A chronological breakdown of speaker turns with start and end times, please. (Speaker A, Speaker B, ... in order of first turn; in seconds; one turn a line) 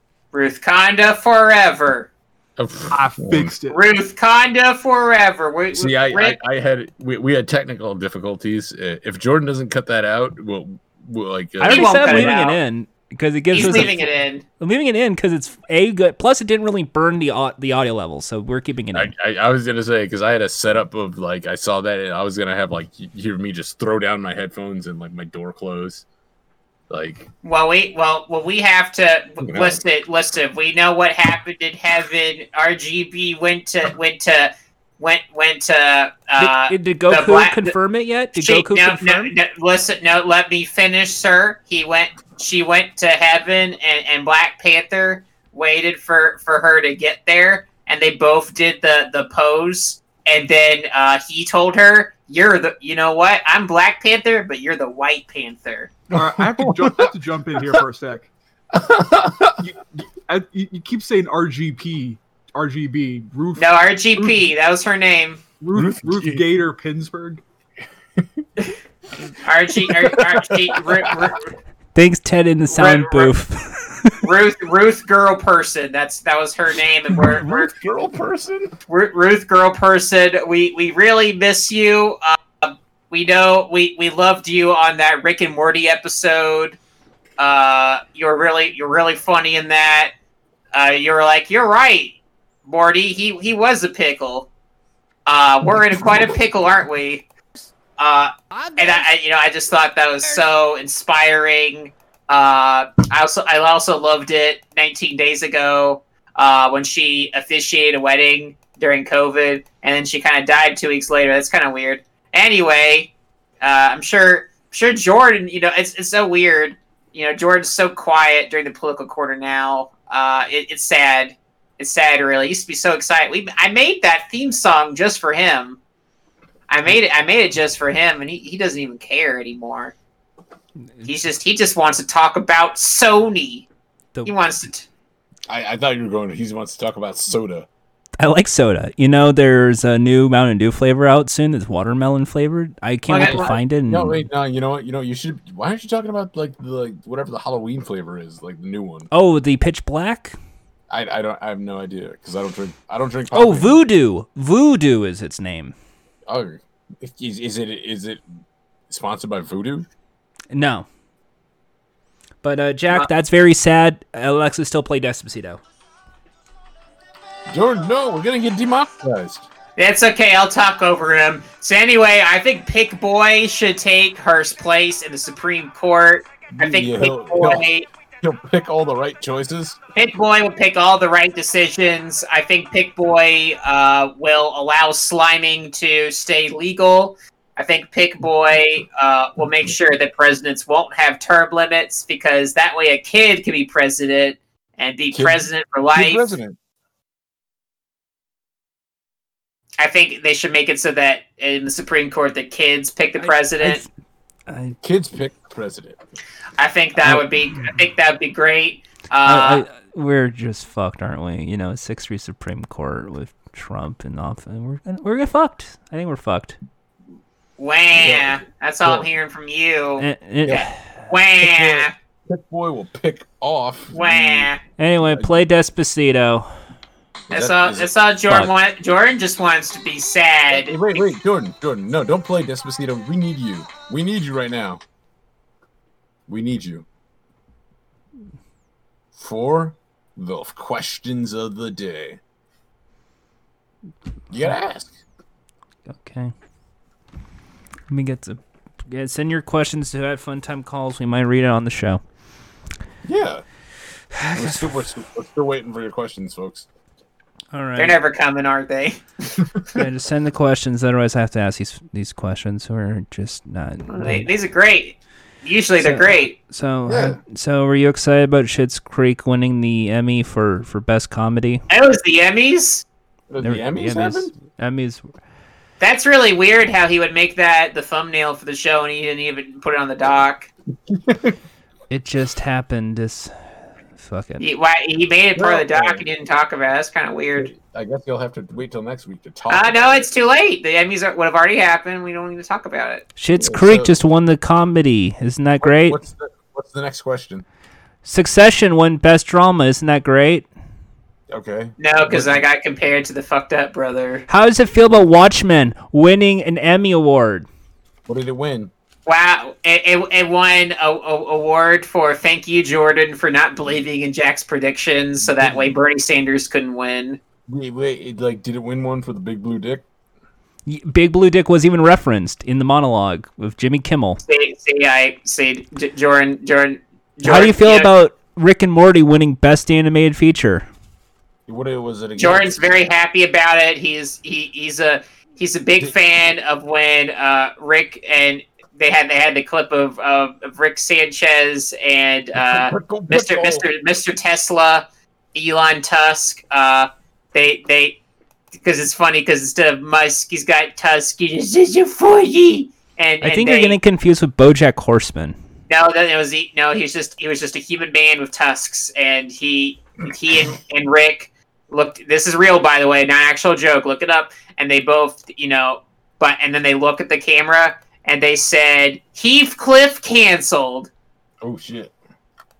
Speaker A: 0.3-2.1
Speaker B: 2.6-3.5
Speaker C: 2.9-3.8
Speaker A: 3.7-6.4
Speaker B: 5.7-12.4
Speaker D: 11.6-14.1
Speaker A: 11.6-12.6
Speaker A: 13.5-14.4
Speaker B: 13.6-13.9
Speaker D: 14.6-19.1
Speaker B: 18.9-26.0
Speaker B: 26.9-27.2
Speaker A: 27.4-37.7
Speaker B: 29.4-29.8
Speaker D: 36.4-39.3
Speaker A: 38.4-56.0
Speaker B: 56.1-57.1
Speaker C: 56.1-58.3
Speaker B: 58.7-59.6
Speaker C: 59.6-64.4
Speaker A: 63.5-65.4
Speaker C: 65.6-67.4
Speaker B: 65.7-66.5
Speaker A: 69.4-71.5
Speaker B: 69.8-71.3
Speaker D: 71.9-74.2
Speaker A: 72.7-73.3
Speaker A: 74.2-77.7
Speaker B: 77.1-78.7
Speaker A: 78.9-86.8
Speaker A: 87.4-90.1
Speaker A: 90.7-94.5
Speaker A: 95.2-97.2
Speaker A: 98.0-113.1
Speaker A: 113.6-125.8
Speaker A: 126.7-129.9
Speaker A: 131.0-133.7
Speaker A: 134.2-134.9
Speaker B: 135.5-137.7
Speaker D: 138.2-144.2
Speaker A: 143.1-143.6
Speaker B: 143.9-149.1
Speaker D: 149.1-150.3
Speaker B: 150.9-153.8
Speaker D: 153.3-155.7
Speaker B: 156.3-158.2
Speaker B: 158.9-159.9
Speaker D: 160.5-160.9
Speaker D: 162.4-165.6
Speaker B: 167.5-169.5
Speaker A: 169.8-177.9
Speaker B: 176.5-177.7
Speaker B: 178.2-179.8
Speaker A: 179.9-196.3
Speaker B: 195.1-196.6
Speaker A: 199.8-203.8
Speaker D: 203.2-203.8
Speaker D: 204.5-204.8
Speaker B: 204.8-206.0
Speaker A: 206.6-209.6
Speaker D: 209.2-216.6
Speaker A: 217.6-221.9
Speaker B: 217.9-219.1
Speaker D: 220.0-220.7
Speaker B: 221.4-225.4
Speaker A: 223.9-224.6
Speaker D: 224.8-226.5
Speaker B: 227.3-227.9
Speaker A: 227.3-231.2
Speaker B: 230.5-234.8
Speaker B: 236.3-236.8
Speaker B: 239.1-242.2
Speaker B: 244.3-244.9
Speaker D: 245.9-246.3
Speaker D: 247.9-252.0
Speaker B: 253.0-253.4
Speaker D: 254.1-254.8
Speaker B: 254.3-256.7
Speaker D: 257.5-258.0
Speaker A: 257.8-259.4
Speaker D: 259.7-264.3
Speaker A: 263.9-266.3
Speaker D: 265.8-271.6
Speaker B: 266.9-267.2
Speaker A: 271.7-272.8
Speaker B: 273.3-274.3
Speaker D: 273.4-275.1
Speaker A: 275.8-280.5
Speaker B: 280.9-281.4
Speaker D: 281.9-283.3
Speaker D: 283.9-284.4
Speaker A: 284.4-287.5
Speaker B: 285.4-286.0
Speaker B: 287.4-290.1
Speaker A: 289.5-293.1
Speaker D: 293.2-296.0
Speaker B: 293.3-294.0
Speaker B: 295.6-297.4
Speaker D: 298.0-300.5
Speaker B: 301.3-302.4
Speaker A: 301.8-304.2
Speaker D: 304.3-307.4
Speaker B: 308.1-308.7
Speaker A: 309.1-317.2
Speaker B: 315.2-315.8
Speaker B: 317.5-319.8
Speaker D: 320.6-324.2
Speaker A: 324.2-327.9
Speaker D: 327.2-330.6
Speaker B: 331.5-332.6
Speaker A: 332.2-348.0
Speaker B: 342.3-343.6
Speaker A: 348.6-353.8
Speaker D: 353.2-355.4
Speaker A: 355.7-370.9
Speaker B: 371.4-371.9